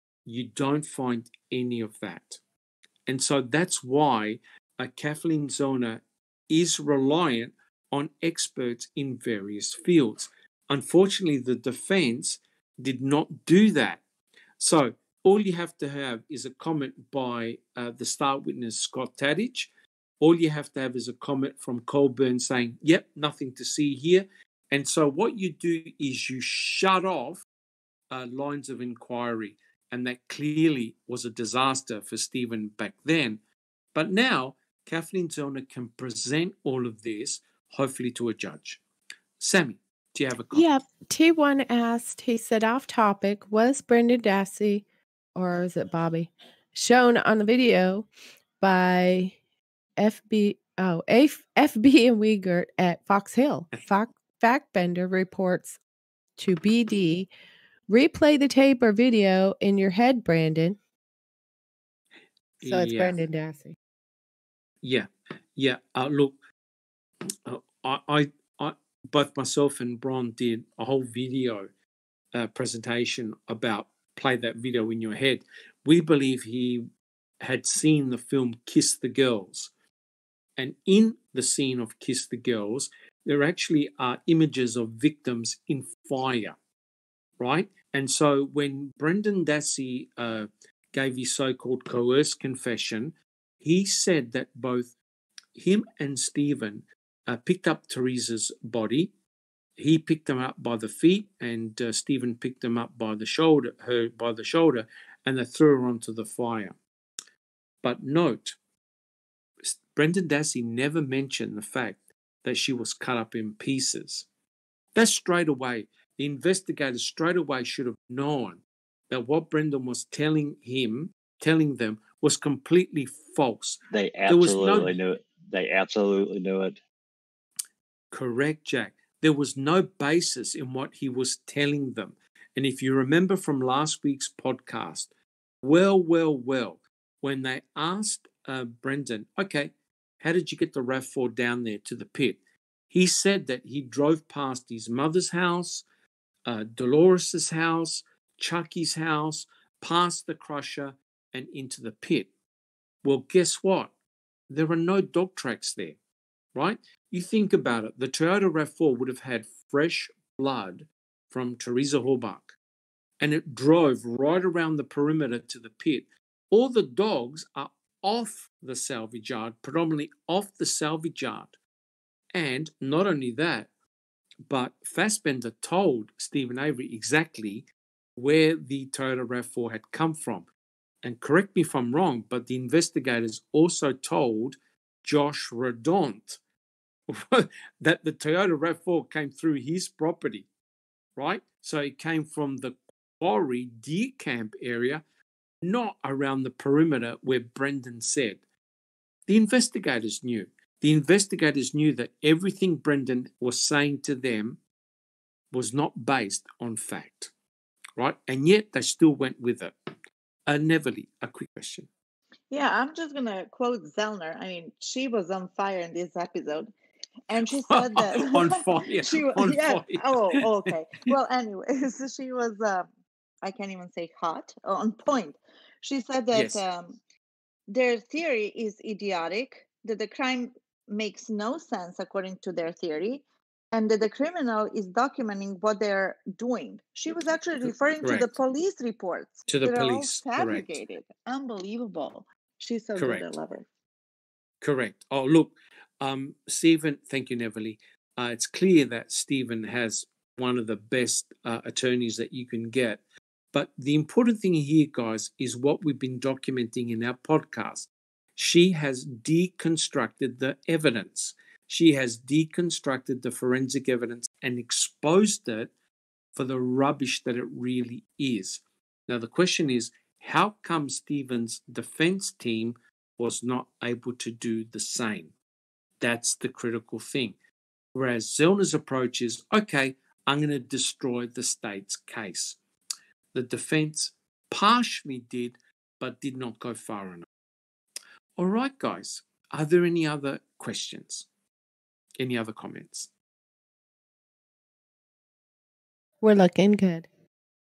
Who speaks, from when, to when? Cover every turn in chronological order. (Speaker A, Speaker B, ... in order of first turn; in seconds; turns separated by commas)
Speaker A: 0.3-2.4, Speaker A: 3.1-14.0, Speaker A: 14.6-19.7, Speaker A: 20.2-27.4, Speaker A: 28.1-33.4, Speaker A: 34.0-38.8, Speaker A: 39.4-40.7, Speaker B: 40.5-48.1, Speaker B: 48.6-49.4, Speaker B: 50.0-55.8, Speaker B: 56.4-57.3, Speaker B: 57.9-60.8, Speaker A: 62.6-63.2, Speaker B: 62.6-63.8, Speaker A: 64.8-66.4, Speaker A: 67.5-71.7, Speaker A: 72.3-76.9, Speaker A: 77.4-79.7, Speaker A: 80.6-86.6, Speaker A: 87.4-95.0, Speaker A: 95.6-99.1, Speaker A: 99.8-106.8, Speaker A: 107.8-108.6, Speaker A: 109.6-114.3, Speaker A: 115.0-125.0, Speaker C: 123.9-126.8, Speaker A: 128.1-135.1, Speaker A: 135.6-142.4, Speaker A: 142.9-145.8, Speaker A: 146.5-152.3, Speaker A: 153.0-153.9, Speaker A: 154.5-156.0, Speaker A: 156.6-162.6, Speaker A: 163.2-171.6, Speaker A: 172.3-173.7, Speaker A: 174.5-180.5, Speaker A: 181.0-186.4, Speaker A: 187.1-190.5, Speaker A: 191.2-195.0, Speaker A: 195.6-198.4, Speaker A: 199.3-204.6, Speaker A: 205.5-207.3, Speaker A: 208.0-209.7, Speaker A: 210.5-211.9, Speaker D: 212.5-216.7, Speaker D: 217.3-222.9, Speaker A: 217.3-220.7, Speaker D: 223.4-227.0, Speaker A: 226.3-226.6, Speaker D: 227.7-243.7, Speaker A: 238.0-238.3, Speaker A: 239.5-240.7, Speaker A: 242.9-243.3, Speaker A: 244.6-253.0, Speaker A: 253.5-265.7, Speaker A: 266.4-275.3, Speaker A: 276.0-277.4, Speaker A: 277.9-282.6, Speaker A: 283.3-287.3, Speaker A: 288.4-291.3, Speaker A: 292.2-293.1, Speaker B: 296.2-297.1